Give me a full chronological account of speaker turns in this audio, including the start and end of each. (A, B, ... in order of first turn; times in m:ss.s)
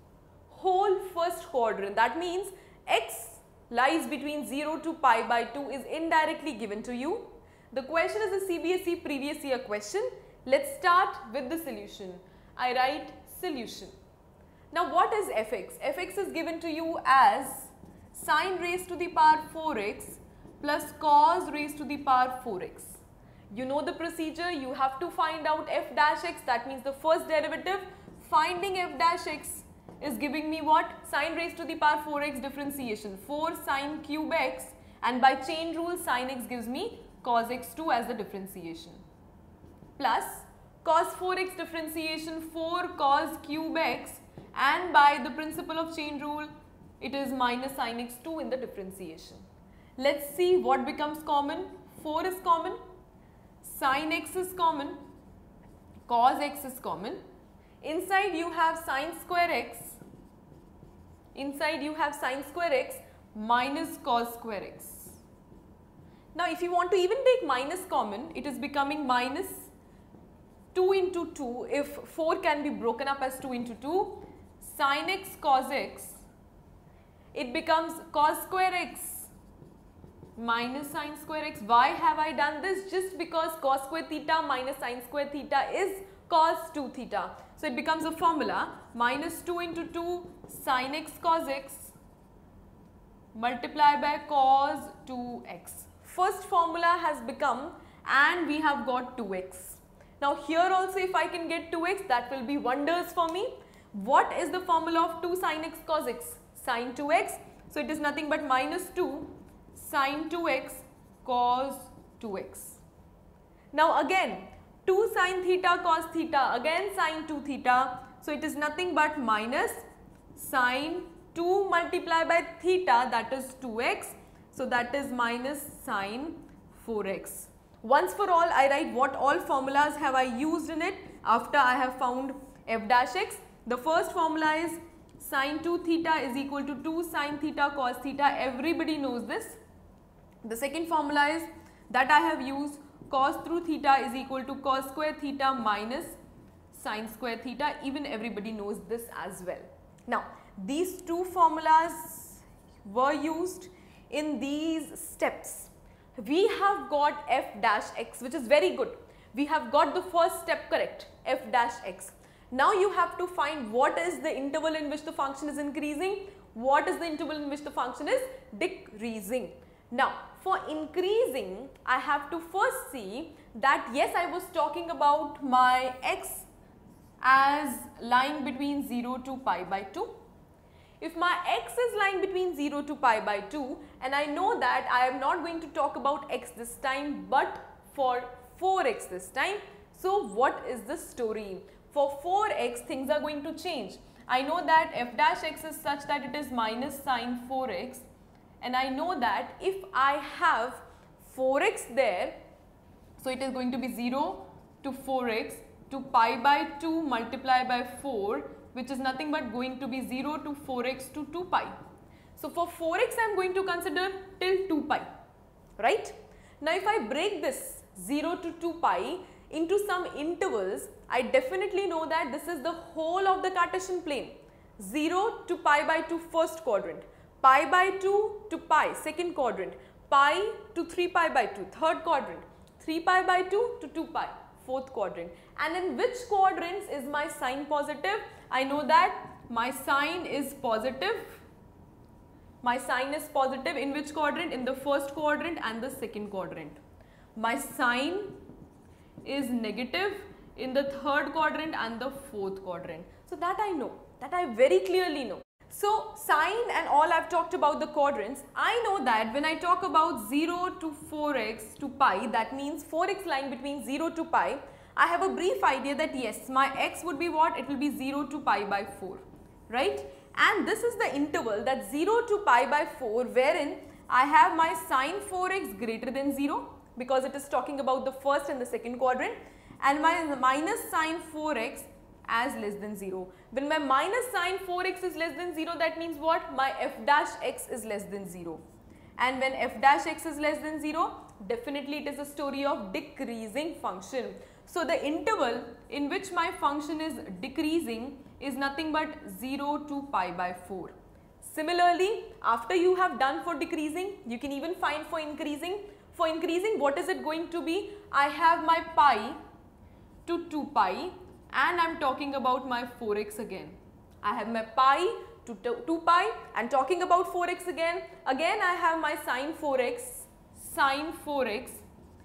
0:00.5-0:13.9 A
0:14.7-0:39.0 A
0:40.0-0:49.4 A
0:50.0-0:52.8 A
0:53.6-0:55.0 A
0:56.1-0:57.2 A
0:57.8-1:00.0 A
1:01.3-1:05.2 A
1:06.3-1:09.7 A
1:10.7-1:16.2 A
1:17.3-1:19.3 A
1:20.4-1:32.0 A
1:33.3-1:52.8 A
1:53.7-1:59.8 A
2:00.4-2:19.6 A
2:20.4-2:26.2 A
2:26.7-2:56.5 A
2:57.2-3:00.2 A
3:01.0-3:18.0 A
3:18.6-3:22.4 A
3:23.2-3:31.7 A
3:32.4-3:35.1 A
3:35.8-4:01.4 A
4:02.6-4:06.8 A
4:07.4-4:08.4 A
4:09.2-4:48.6 A
4:49.2-5:09.4 A
5:10.2-5:21.8 A